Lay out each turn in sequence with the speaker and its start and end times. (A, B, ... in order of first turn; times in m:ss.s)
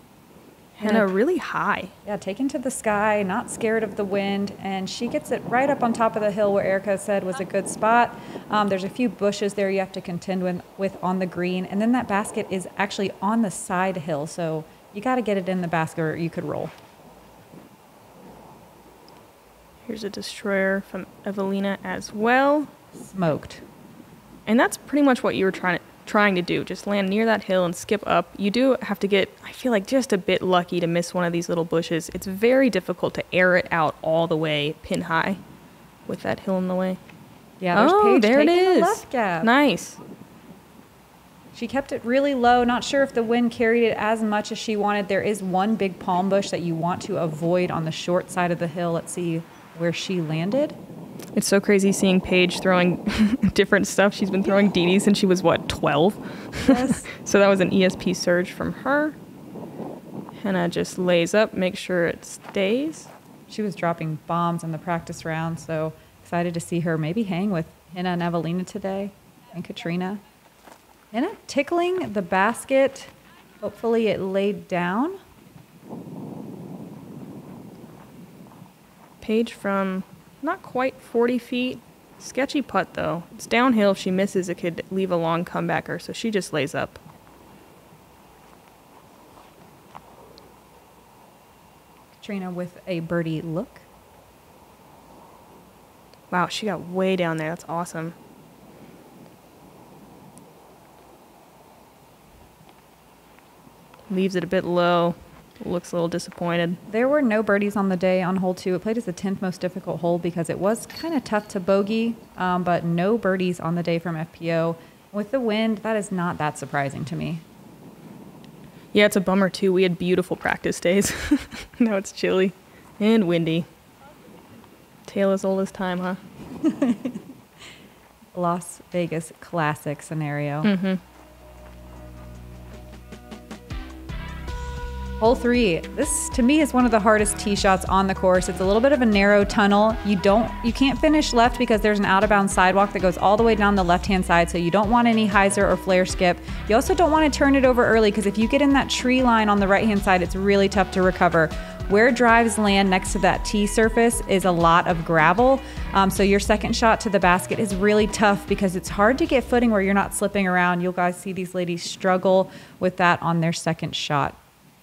0:00.8-0:01.9 A
0:00.8-0:01.1 B
0:02.0-0:16.7 B
0:19.8-0:22.7 A
0:22.9-0:23.6 B
0:24.5-0:35.4 A
0:36.1-0:37.0 A
0:37.6-0:39.5 B
0:37.7-0:40.0 A
0:41.5-0:50.8 B
0:51.3-0:59.2 A
0:56.6-0:57.0 B
1:00.4-1:03.1 A
1:03.5-1:10.2 B
1:11.1-1:15.2 B
1:19.2-1:27.0 A
1:32.2-1:33.8 B
1:36.3-1:38.1 A
1:44.1-1:46.8 A
1:46.9-1:57.4 B
1:58.9-2:03.7 A
2:05.1-2:06.2 A
2:06.6-2:07.3 B
2:08.3-2:10.7 B
2:10.6-2:11.0 A
2:15.2-2:44.4 B